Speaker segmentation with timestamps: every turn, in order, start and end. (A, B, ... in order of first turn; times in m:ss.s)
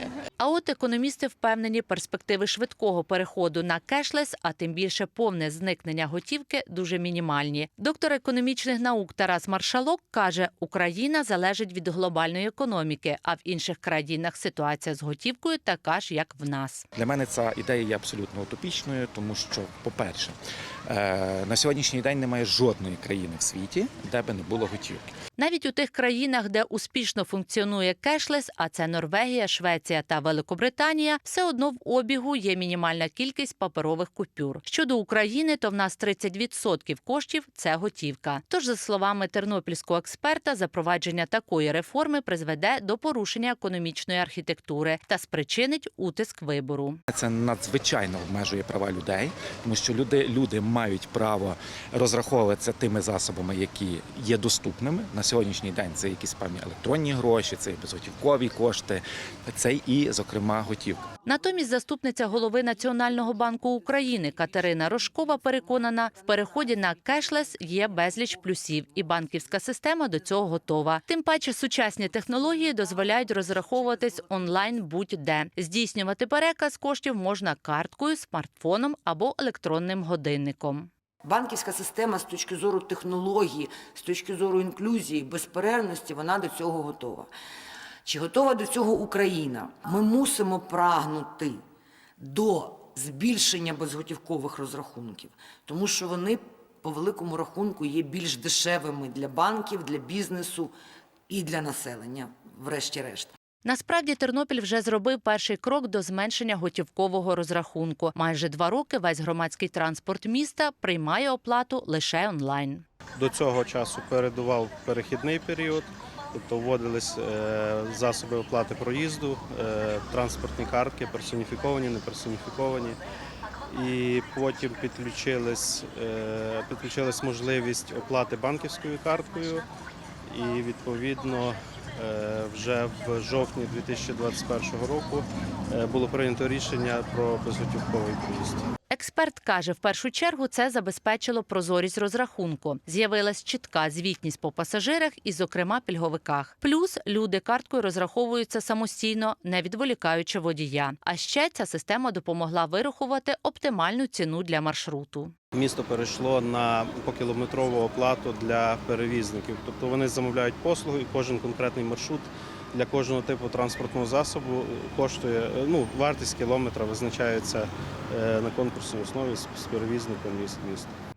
0:00.4-0:16.8 A
0:16.9-0:25.1 B
0:25.4-0:47.0 A
0:47.1-1:01.1 B
1:01.2-1:20.9 A
1:21.2-1:27.3 C
1:28.0-1:31.6 C
1:32.2-1:40.7 C
1:41.3-1:43.3 C
1:43.6-1:52.8 A
1:53.2-2:03.0 D
2:03.7-2:09.6 D
2:10.2-2:18.7 D
2:18.9-2:35.3 A
2:35.5-2:50.9 D